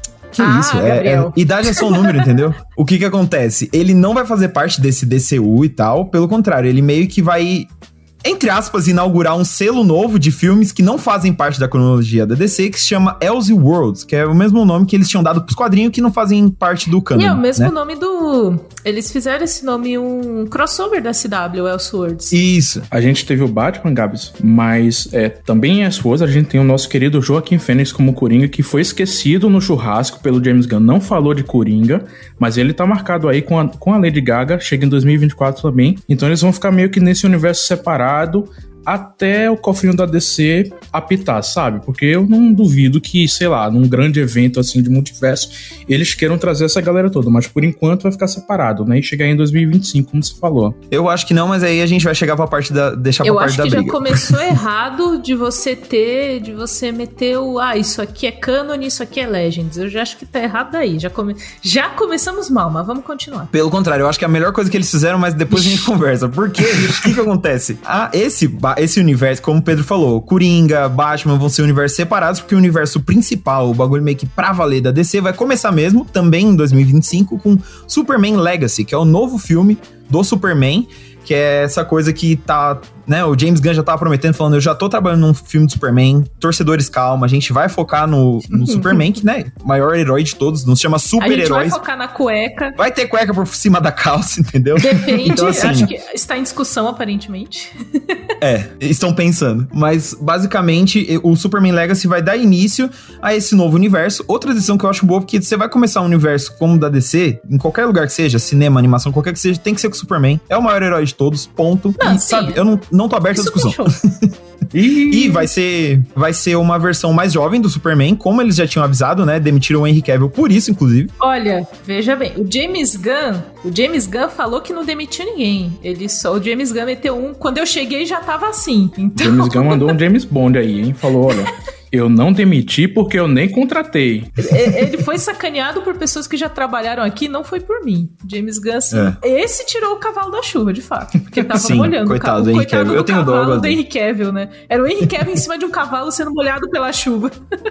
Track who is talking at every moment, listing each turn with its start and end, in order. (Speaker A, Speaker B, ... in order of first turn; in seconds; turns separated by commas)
Speaker A: 0.3-7.7, Speaker B: 0.4-2.3, Speaker A: 8.2-17.7, Speaker B: 17.1-22.4, Speaker A: 22.3-22.9, Speaker C: 22.9-50.8, Speaker A: 50.9-54.4, Speaker B: 53.2-63.5, Speaker A: 63.5-91.8, Speaker B: 65.5-65.9, Speaker B: 88.5-89.0, Speaker B: 91.2-92.8, Speaker A: 92.8-95.9, Speaker B: 94.8-98.2, Speaker A: 98.4-114.3, Speaker B: 112.0-112.6, Speaker B: 113.3-114.0, Speaker C: 114.7-115.5, Speaker A: 115.1-121.1, Speaker B: 121.2-130.0, Speaker C: 129.2-134.3, Speaker B: 134.4-147.3, Speaker A: 138.9-139.2, Speaker A: 141.5-143.8